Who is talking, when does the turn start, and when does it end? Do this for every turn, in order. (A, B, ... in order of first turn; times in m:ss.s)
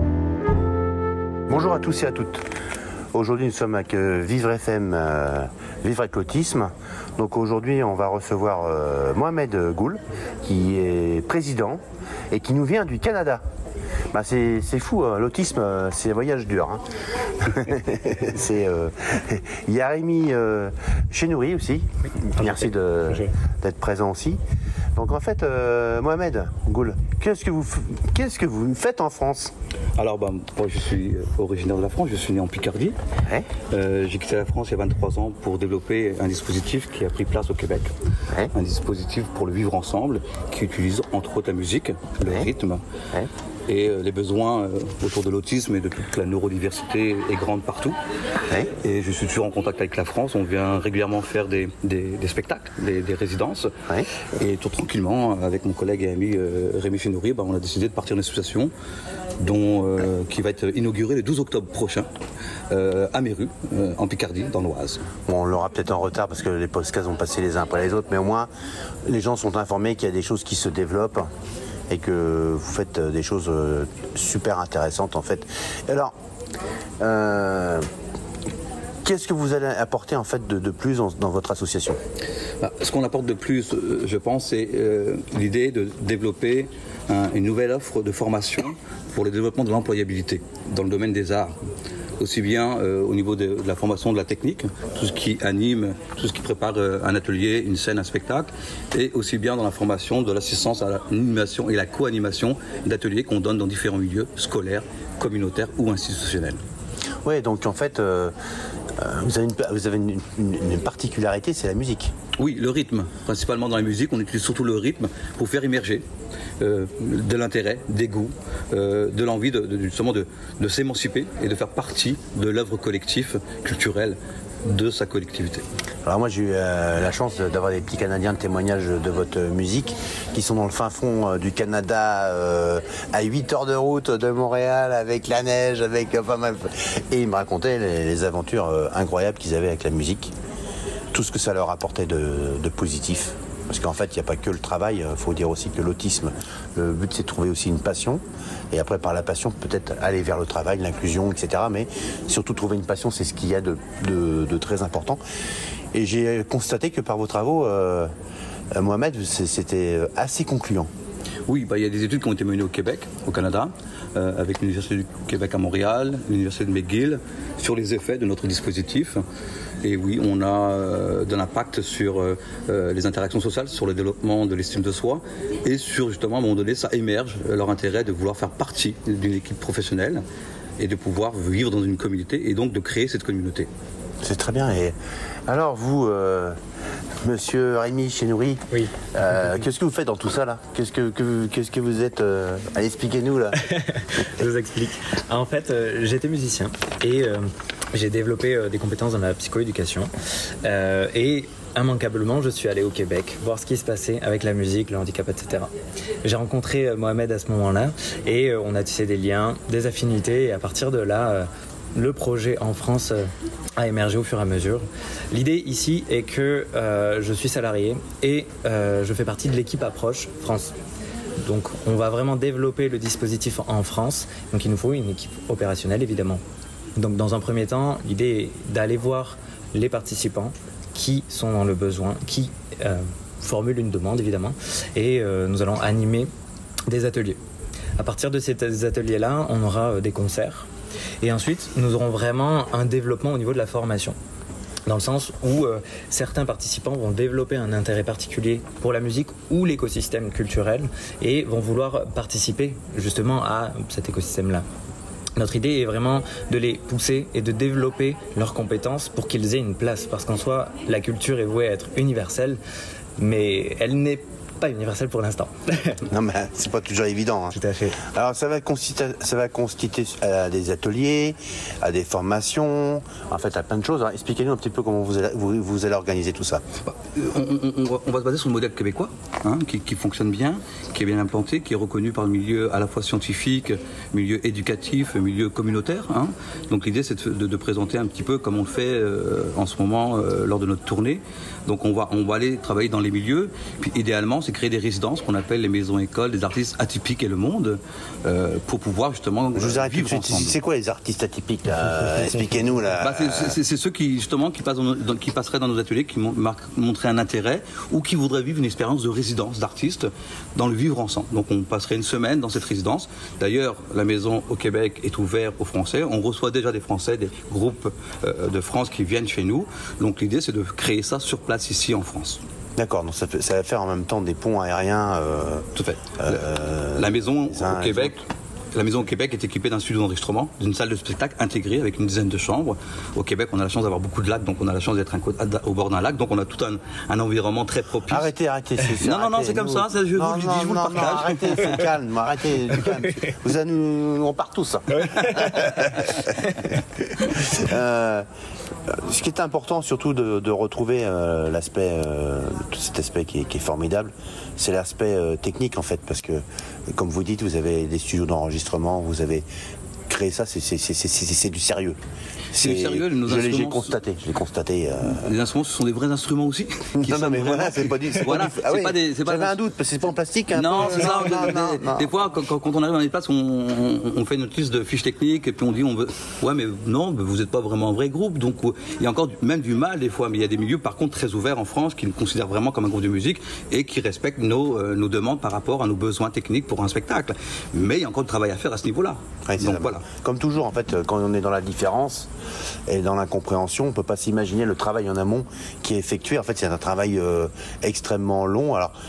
0:01.5-0:02.4 A
0:03.1-0:13.4 A
0:14.1-0:16.8 A
0:17.4-0:24.4 A
0:25.0-0:29.5 A
0:30.0-0:33.0 B
0:33.7-0:37.9 B
0:38.5-0:42.8 B
0:42.2-0:42.5 A
0:43.7-0:48.0 B
0:48.8-0:53.7 B
0:54.4-0:58.7 B
0:59.4-1:02.1 B
1:02.7-1:05.0 B
1:05.3-1:08.5 A
1:09.1-1:11.3 A
1:11.9-1:16.1 A
1:17.0-1:17.8 A
1:19.0-1:22.0 A
1:22.6-1:31.6 B
1:32.2-1:46.6 B
1:47.2-1:48.3 A
1:49.0-1:52.1 A
1:52.4-1:56.0 B
1:56.6-2:05.6 B
2:06.1-2:20.3 A
2:21.1-2:35.2 A
2:35.9-2:38.1 A
2:38.7-2:40.9 A
2:41.5-2:49.2 B
2:49.8-3:00.2 B
3:00.8-3:03.7 B
3:04.2-3:05.0 A
3:05.5-3:06.6 A
3:07.2-3:08.6 A
3:09.1-3:13.6 A
3:13.6-3:20.1 C
3:20.6-3:25.7 C
3:26.2-3:40.8 C
3:41.4-3:46.4 C
3:47.0-3:56.3 C
3:56.9-3:57.4 C
3:58.0-4:00.7 C
4:01.2-4:04.2 C
4:04.9-4:14.6 C
4:15.4-4:22.6 C
4:23.2-4:26.0 C
4:26.1-4:36.6 A
4:27.5-4:28.0 C
4:36.8-5:00.6 B
4:59.6-5:03.6 A
5:02.2-5:02.4 C
5:03.0-5:22.4 B
5:22.8-5:25.7 A
5:25.8-5:26.4 B
5:26.2-5:28.2 A
5:27.0-5:28.2 B
5:28.8-5:38.3 B
5:38.1-5:46.3 A
5:38.9-5:41.9 B
5:45.0-5:46.3 C
5:47.3-5:48.2 A
5:48.9-5:59.5 A
6:00.1-6:02.0 A
6:02.5-6:05.2 A
6:02.5-6:04.0 B
6:05.1-6:09.6 B
6:07.0-6:12.1 A
6:10.5-6:30.0 B
6:29.5-6:32.3 A
6:32.9-6:38.9 A